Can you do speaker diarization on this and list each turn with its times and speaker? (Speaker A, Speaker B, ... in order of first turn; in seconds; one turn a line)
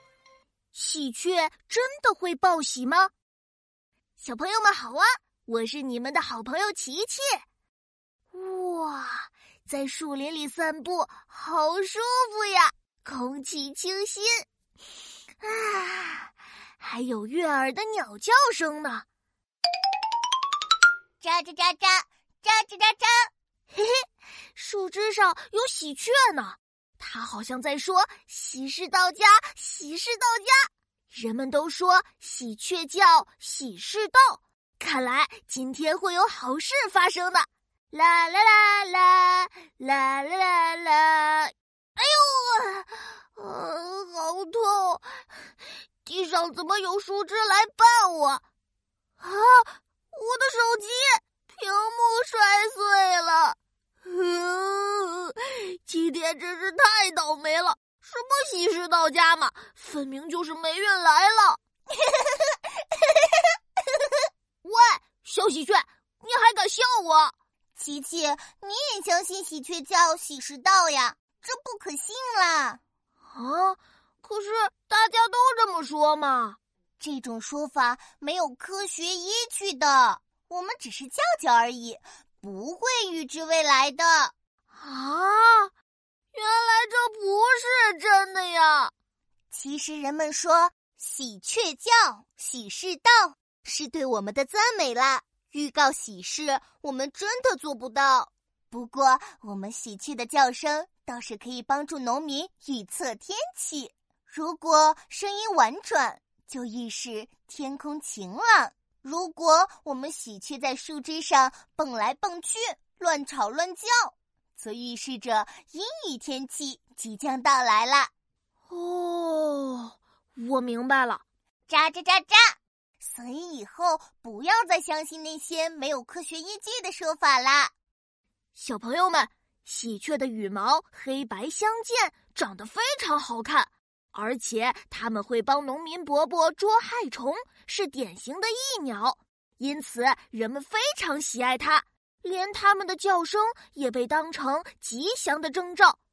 Speaker A: 0.7-3.1
Speaker A: 4.2-7.4
Speaker A: 8.3-14.4
Speaker A: 15.4-19.0
Speaker B: 21.2-23.3
Speaker A: 23.7-24.0
Speaker A: 24.6-45.0
Speaker A: 46.0-48.4
Speaker A: 49.2-63.3
Speaker A: 64.6-67.3
Speaker B: 67.8-72.8
Speaker A: 73.3-76.6
Speaker B: 77.0-84.3
Speaker A: 84.8-85.7
Speaker A: 86.3-88.9
Speaker B: 89.5-118.1
Speaker A: 118.7-121.2
Speaker B: 121.7-127.7
Speaker A: 128.6-146.0